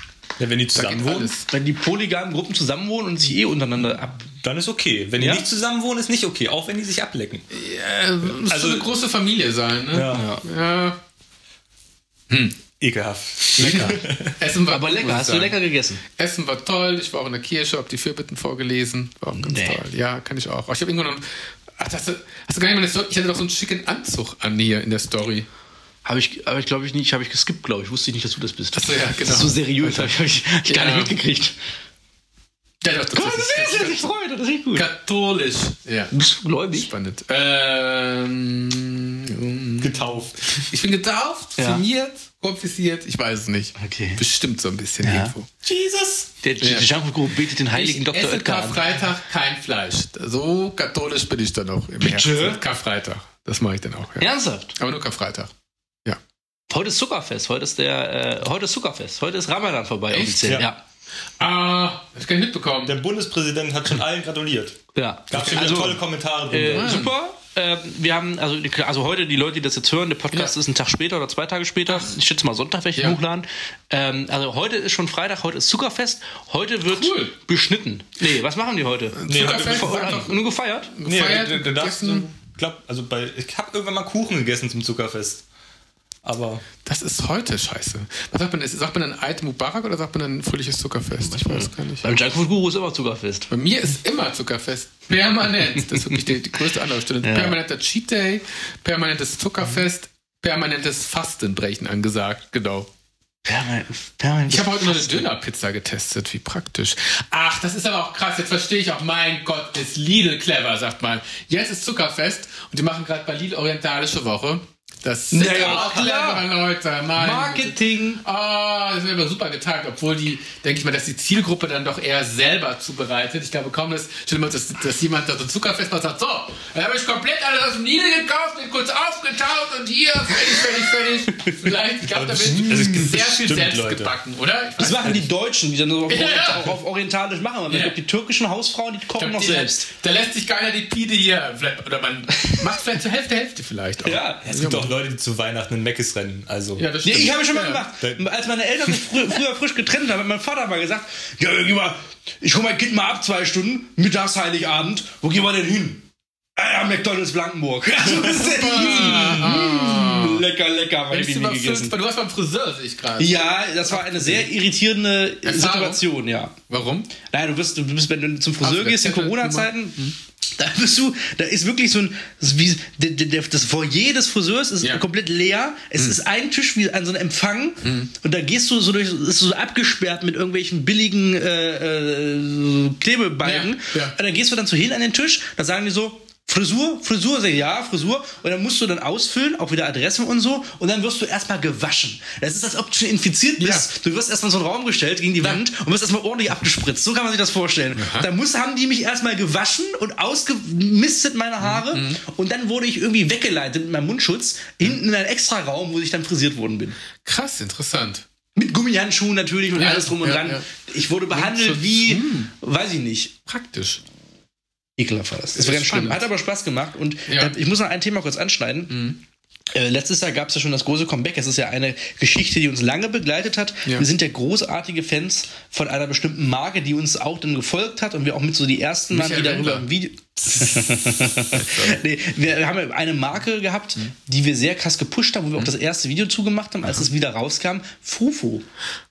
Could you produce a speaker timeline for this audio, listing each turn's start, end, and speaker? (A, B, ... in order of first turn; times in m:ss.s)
0:00.4-0:01.3 A
0:00.7-0:01.5 B
0:01.5-0:04.3 C
0:04.4-0:07.4 A
0:05.2-0:05.4 C
0:07.5-0:11.0 B
0:08.4-0:08.9 A
0:09.9-0:10.2 A
0:10.1-0:10.4 C
0:12.3-0:12.6 B
0:12.8-0:14.3 A
0:13.6-0:21.2 B
0:14.7-0:16.0 C
0:19.4-0:19.8 C
0:21.8-0:25.5 B
0:26.0-0:31.5 C
0:28.7-0:30.1 B
0:30.6-0:31.1 B
0:32.8-0:34.0 B
0:33.1-0:34.9 C
0:34.7-0:36.1 B
0:36.1-0:36.9 C
0:36.7-0:40.0 B
0:39.8-0:40.4 A
0:40.5-0:45.5 B
0:41.6-0:41.8 C
0:43.8-0:44.2 C
0:45.0-0:45.3 C
0:45.6-0:46.3 A
0:46.4-0:48.8 C
0:46.6-0:46.9 B
0:47.7-0:55.5 B
0:52.0-0:52.6 C
0:54.2-0:54.7 C
0:56.7-1:00.8 C
1:00.1-1:00.6 B
1:01.4-1:02.9 B
1:02.8-1:04.8 A
1:04.9-1:20.9 C
1:05.3-1:07.0 A
1:05.4-1:05.7 B
1:06.7-1:07.1 B
1:16.9-1:17.3 B
1:19.1-1:20.4 B
1:19.3-1:20.2 A
1:20.9-1:22.3 B
1:21.0-1:25.4 A
1:26.2-1:26.6 A
1:26.8-1:32.1 B
1:31.3-1:33.5 C
1:33.5-1:42.9 B
1:37.2-1:37.6 C
1:43.4-1:45.2 C
1:44.5-2:15.2 B
1:55.3-1:56.5 C
1:57.1-1:58.2 C
2:12.1-2:14.1 A
2:14.8-2:19.9 C
2:16.1-2:16.8 B
2:17.7-2:18.0 B
2:19.2-2:24.9 B
2:24.0-2:24.4 C
2:24.4-2:26.9 A
2:26.8-2:27.8 B
2:27.0-2:42.0 C
2:38.1-2:40.4 B
2:41.1-2:44.4 B
2:43.2-2:46.6 C
2:45.4-2:46.0 B
2:46.7-2:47.1 B
2:47.2-2:50.0 C
2:48.6-2:50.1 B
2:50.6-3:27.0 C
2:57.8-2:58.1 B
3:03.4-3:04.1 B
3:13.6-3:13.9 B
3:18.0-3:18.3 B
3:21.6-3:22.2 B
3:27.2-3:28.2 B
3:28.6-3:33.3 C
3:29.7-3:30.6 B
3:31.3-3:32.5 B
3:33.4-3:34.0 B
3:35.0-3:39.1 C
3:35.6-3:36.3 B
3:37.3-3:37.5 B
3:38.9-3:39.2 B
3:39.7-3:58.6 C
3:49.1-3:49.9 B
3:50.5-3:52.0 B